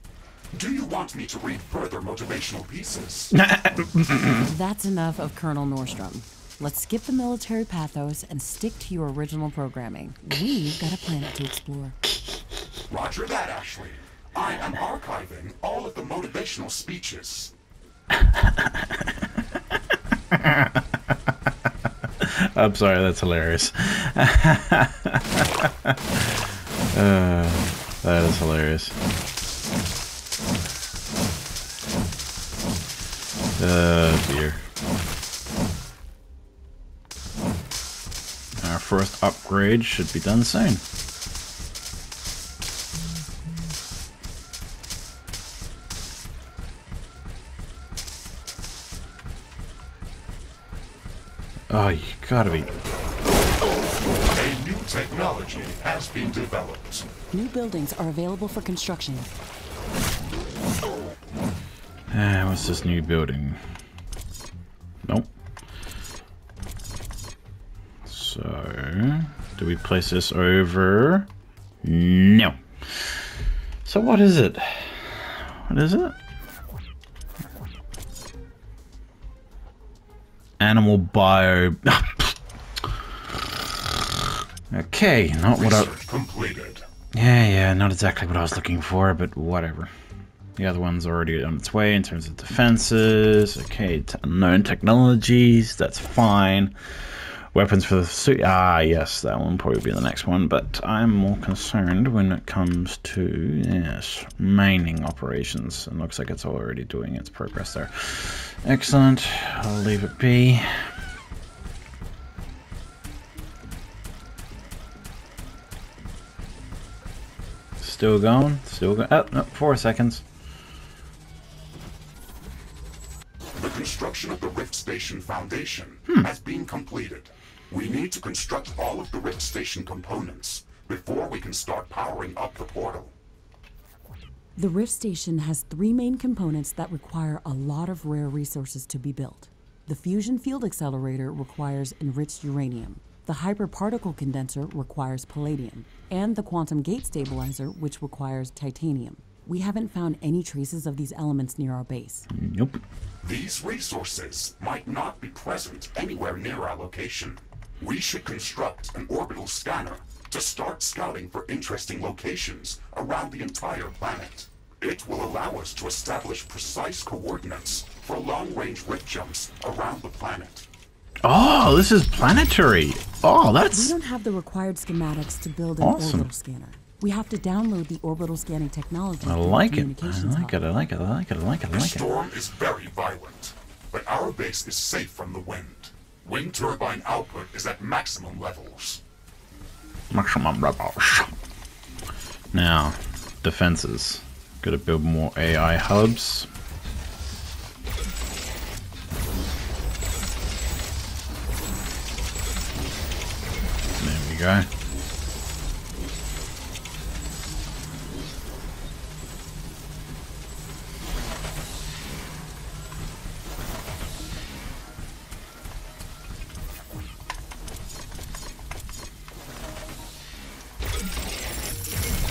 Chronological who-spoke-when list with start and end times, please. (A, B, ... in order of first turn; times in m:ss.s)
0:00.5-0:03.3 A
0:03.3-0:04.5 B
0:04.5-0:12.0 C
0:12.1-0:12.7 B
0:12.9-0:17.5 A
0:18.1-0:29.0 B
0:33.6-0:34.6 B
0:38.6-0:40.8 B
0:51.7-0:52.7 B
0:54.3-0:57.1 A
0:57.3-0:59.3 C
1:02.1-1:03.6 B
1:05.0-1:05.3 B
1:08.0-1:11.3 B
1:11.8-1:13.3 B
1:13.8-1:16.2 B
1:20.6-1:23.2 B
1:24.7-1:25.9 B
1:25.6-1:26.8 A
1:27.1-1:29.9 B
1:30.6-1:50.9 B
1:57.8-2:00.2 B
2:03.6-2:13.1 A
2:14.6-2:32.3 C
2:32.3-2:32.8 B
2:33.2-2:50.7 A
2:51.2-2:53.9 B
2:53.7-3:00.6 C
2:55.8-2:56.3 B
2:59.2-3:02.1 B
3:01.7-3:09.0 A
3:10.1-3:11.3 B
3:12.5-3:16.5 B
3:24.0-3:24.7 B